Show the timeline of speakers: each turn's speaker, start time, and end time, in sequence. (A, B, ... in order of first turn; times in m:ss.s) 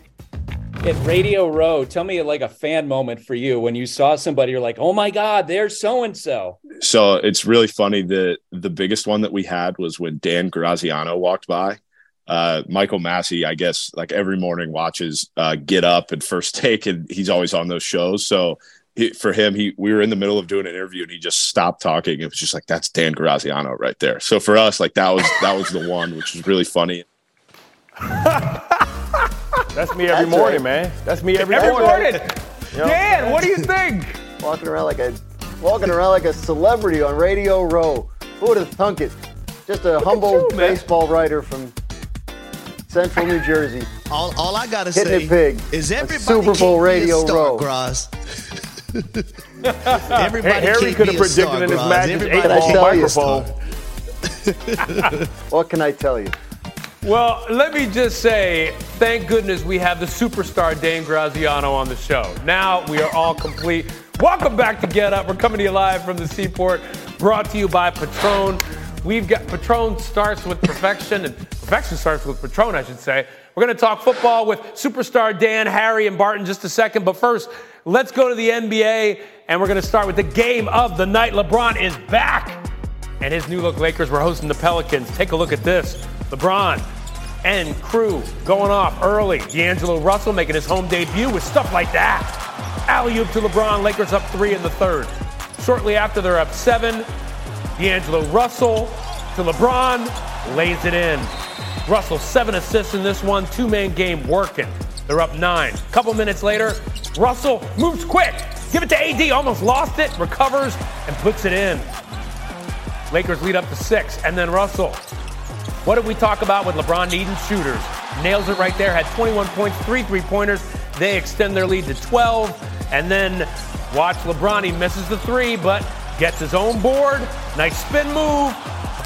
0:00.8-0:06.6 A
0:06.8-0:27.0 B
0:28.3-0:28.6 C
0:29.7-0:33.2 D
0:30.1-0:30.6 E
0:31.4-0:34.2 C
0:31.5-0:32.2 E
0:34.4-0:41.7 E
0:40.0-0:40.8 C
0:42.9-0:44.0 E
0:44.1-0:48.1 F
0:45.0-0:47.7 E
0:49.7-0:50.2 C
0:50.0-0:53.5 F
0:50.4-0:53.5 D
0:52.4-0:53.4 E
0:54.5-0:55.0 F
0:55.5-0:56.4 E
0:57.0-1:22.6 C
1:23.2-1:26.8 C
1:27.4-1:37.1 C
1:37.8-1:41.3 C
1:41.9-1:51.9 C
1:53.1-1:55.0 C
1:55.8-2:08.6 C